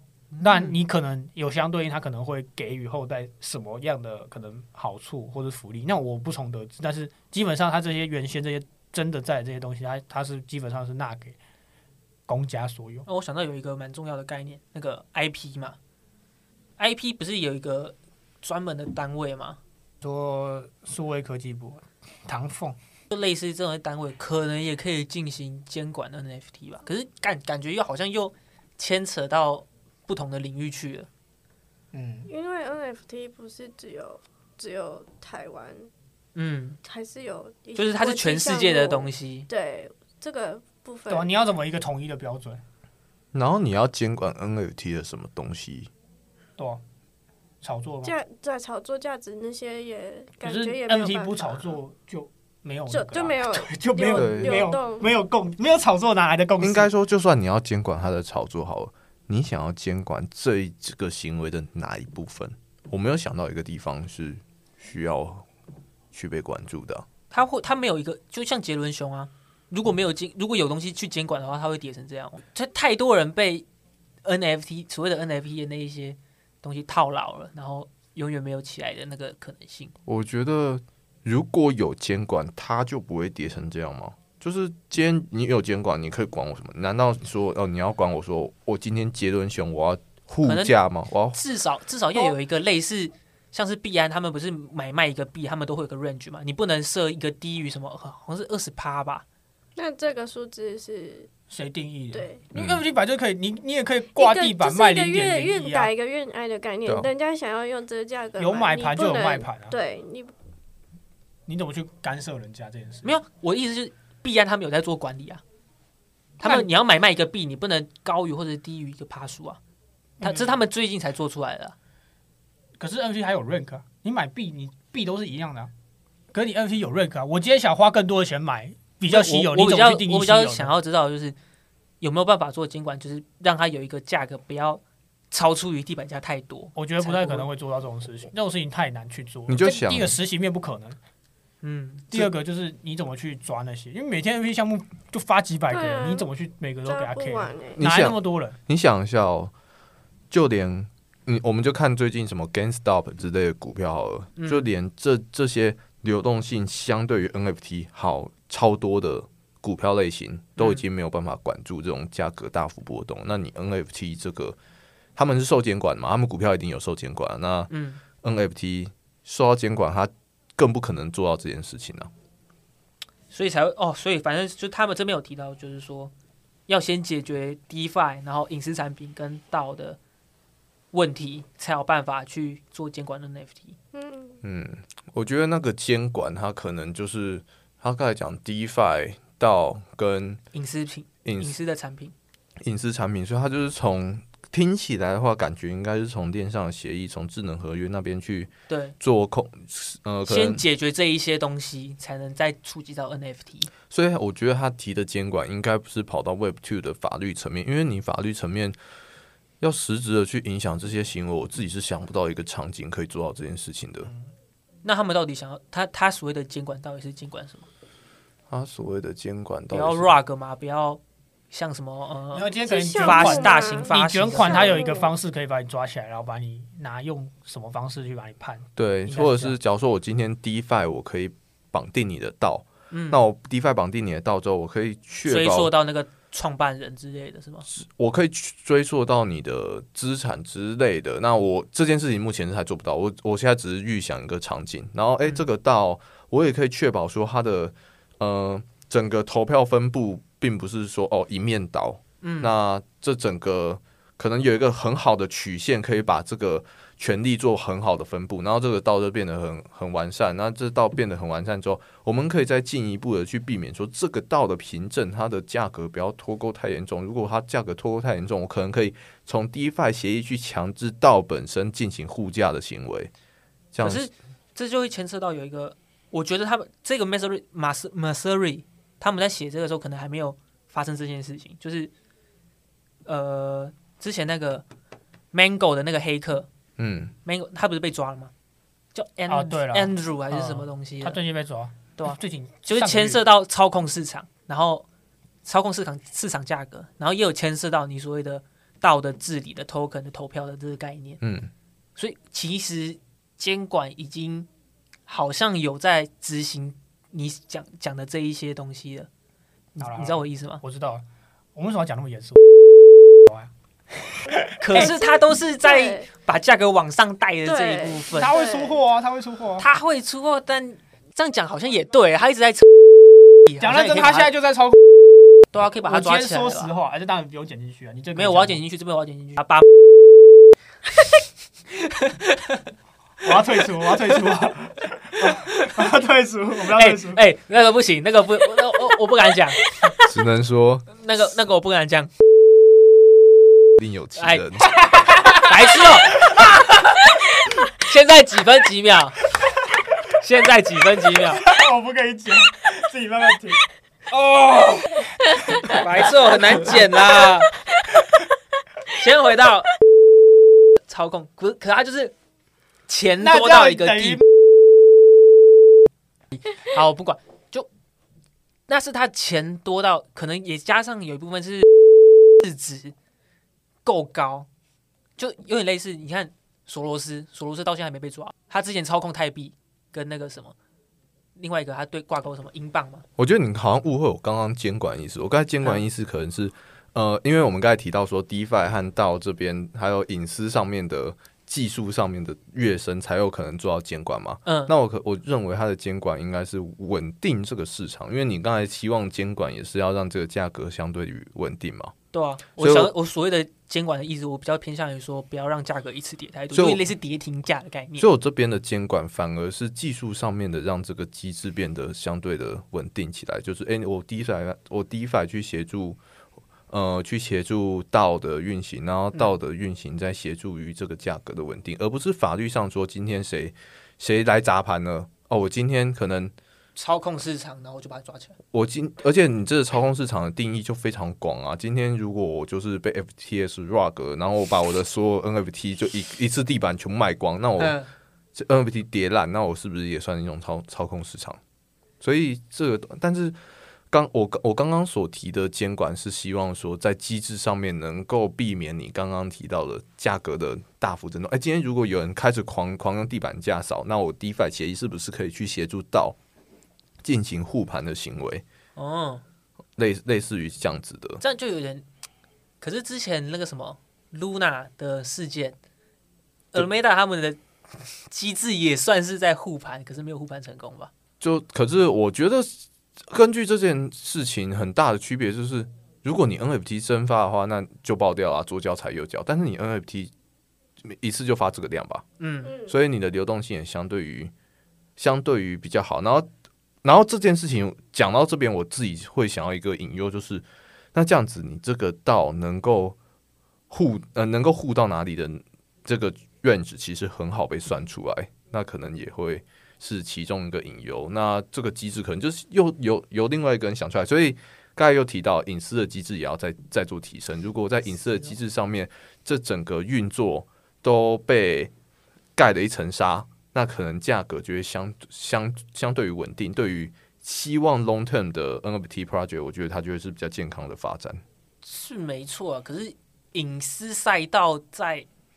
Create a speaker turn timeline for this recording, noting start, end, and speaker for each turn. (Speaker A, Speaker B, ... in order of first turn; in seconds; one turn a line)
Speaker A: 0.3-0.7
Speaker B: 0.4-11.4
Speaker B: 12.3-13.1
Speaker A: 13.1-15.8
Speaker A: 16.8-19.6
Speaker B: 20.0-22.8
Speaker A: 23.1-31.1
Speaker B: 31.9-32.3
Speaker C: 32.3-35.9
Speaker A: 36.3-36.8
Speaker C: 36.8-41.3
Speaker A: 37.8-39.5
Speaker B: 41.1-42.6
Speaker D: 43.3-45.9
Speaker B: 47.6-48.1
Speaker C: 48.0-51.8
Speaker B: 50.4-56.9
Speaker C: 52.9-55.1
Speaker D: 54.1-54.7
Speaker D: 56.6-65.5
Speaker D: 66.1-67.0
Speaker A: 67.3-73.6
Speaker A: 74.2-79.9
Speaker D: 80.0-91.4
Speaker A: 90.4-90.7
Speaker A: 91.3-99.2
Speaker C: 99.8-101.3
Speaker B: 101.5-105.9
Speaker C: 102.1-102.4
Speaker D: 102.5-102.8
Speaker C: 104.2-110.3
Speaker B: 108.4-109.7
Speaker B: 111.5-113.1
Speaker A: 113.0-115.4
Speaker A: 116.4-119.6
Speaker B: 116.4-116.7
Speaker A: 120.2-121.7
Speaker B: 120.2-120.6
Speaker B: 122.8-125.7
Speaker B: 126.3-130.7
Speaker A: 129.1-131.3
Speaker A: 132.0-137.5
Speaker B: 136.7-141.0
Speaker D: 139.5-140.1
Speaker A: 141.6-142.1
Speaker B: 142.1-148.6
Speaker C: 145.7-146.3
Speaker C: 146.8-147.8
Speaker D: 147.8-149.5
Speaker D: 150.3-164.6
Speaker A: 154.4-154.7
Speaker A: 160.6-160.8
Speaker D: 165.2-167.7
Speaker A: 167.7-168.0
Speaker D: 168.2-172.1
Speaker A: 173.3-176.1
Speaker A: 176.7-180.0
Speaker A: 180.9-183.8
Speaker C: 183.9-184.4
Speaker D: 184.4-190.4
Speaker A: 190.5-192.1
Speaker D: 191.2-191.5
Speaker D: 192.6-200.6
Speaker A: 198.7-198.9
Speaker A: 200.2-203.7
Speaker D: 203.9-208.8
Speaker D: 209.6-214.1
Speaker A: 214.8-217.7
Speaker D: 218.5-220.1
Speaker A: 219.7-221.0
Speaker A: 221.5-224.8
Speaker B: 222.3-229.5
Speaker C: 222.6-225.1
Speaker D: 228.8-235.7
Speaker A: 232.9-233.2
Speaker A: 235.2-237.7
Speaker D: 237.7-273.1
Speaker A: 252.2-252.5
Speaker D: 273.7-274.1
Speaker A: 273.8-281.9
Speaker A: 283.1-284.6
Speaker A: 285.3-286.5
Speaker D: 286.8-287.1
Speaker A: 287.2-288.3
Speaker A: 288.9-291.2
Speaker B: 289.3-293.2
Speaker A: 292.0-294.8
Speaker A: 295.4-301.2
Speaker D: 301.2-301.5
Speaker A: 302.0-304.5
Speaker A: 305.1-309.1
Speaker A: 309.7-310.6
Speaker B: 309.8-311.0
Speaker B: 311.5-312.4
Speaker B: 314.1-314.9
Speaker A: 314.6-318.3
Speaker C: 314.7-316.1
Speaker C: 317.4-318.8
Speaker B: 318.1-319.6
Speaker A: 319.6-322.7
Speaker A: 323.4-324.3
Speaker B: 323.6-324.8
Speaker A: 325.5-326.7
Speaker B: 325.8-328.6
Speaker A: 328.1-329.6
Speaker A: 331.8-332.6
Speaker B: 333.2-337.2
Speaker A: 335.2-335.7
Speaker A: 336.7-339.6
Speaker D: 340.0-340.9
Speaker A: 340.9-342.1
Speaker D: 343.8-344.7
Speaker A: 344.2-344.4
Speaker B: 344.9-345.5
Speaker A: 345.3-346.7
Speaker A: 347.7-349.2
Speaker A: 350.1-351.5
Speaker B: 351.4-353.6
Speaker A: 354.1-354.8
Speaker B: 355.5-355.9
Speaker A: 355.6-357.5
Speaker A: 358.9-359.7
Speaker A: 360.9-362.1
Speaker A: 362.9-364.2
Speaker B: 363.2-364.2
Speaker A: 366.4-367.7
Speaker A: 368.7-371.7
Speaker A: 372.4-372.9
Speaker A: 373.8-374.5
Speaker A: 375.2-380.5
Speaker A: 381.4-383.0
Speaker D: 383.2-401.9
Speaker A: 394.4-394.7
Speaker A: 402.1-408.1
Speaker D: 402.6-402.9
Speaker D: 406.5-406.8
Speaker D: 408.0-416.0
Speaker D: 416.7-426.3
Speaker A: 426.8-428.3
Speaker D: 428.5-437.8
Speaker A: 437.6-437.9
Speaker D: 438.3-441.4
Speaker D: 442.0-443.4
Speaker D: 443.9-456.1
Speaker D: 457.0-458.4
Speaker A: 458.8-459.2
Speaker D: 459.8-461.2
Speaker A: 461.2-461.8
Speaker A: 462.6-465.6
Speaker A: 466.5-470.9
Speaker D: 471.2-480.1
Speaker D: 480.8-482.1
Speaker A: 482.2-482.5
Speaker C: 482.4-482.7
Speaker D: 482.6-484.3
Speaker D: 485.0-486.3
Speaker D: 486.8-493.0
Speaker D: 493.7-511.7
Speaker D: 512.3-521.2
Speaker A: 521.6-525.1